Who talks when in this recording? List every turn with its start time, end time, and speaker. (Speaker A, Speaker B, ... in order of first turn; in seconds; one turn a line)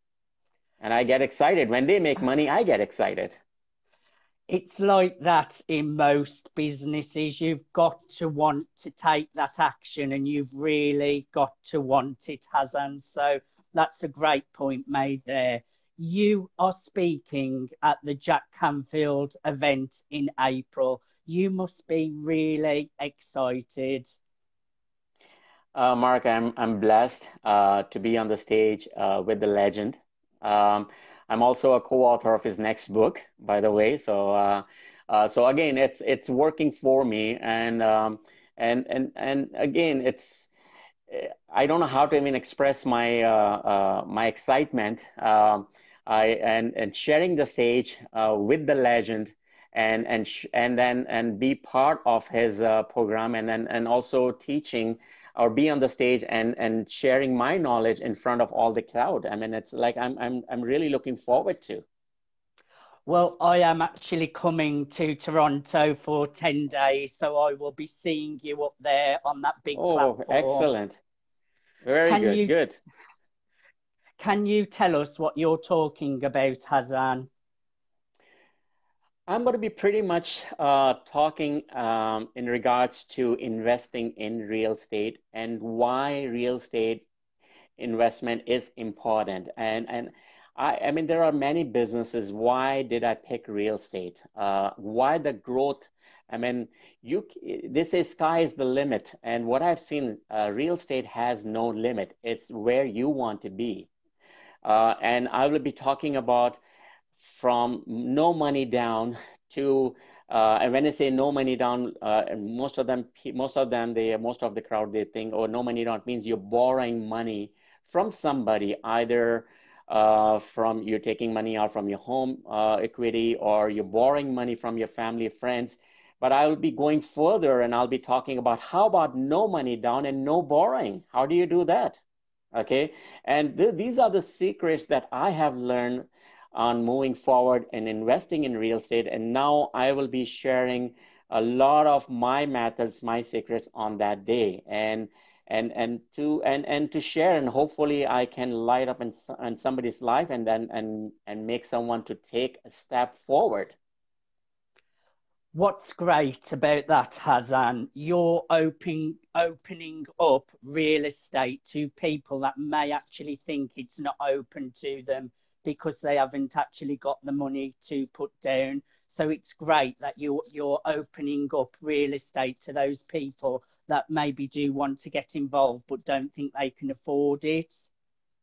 Speaker A: 0.8-3.4
Speaker B: 4.5-24.1
Speaker A: 25.7-40.5
Speaker A: 41.1-61.8
Speaker B: 63.0-70.7
Speaker A: 69.8-71.0
Speaker A: 71.8-72.8
Speaker B: 72.0-72.5
Speaker B: 74.2-77.3
Speaker A: 79.3-87.0
Speaker A: 87.8-103.9
Speaker A: 104.6-106.6
Speaker A: 107.2-132.0
Speaker A: 132.5-153.8
Speaker B: 155.5-177.8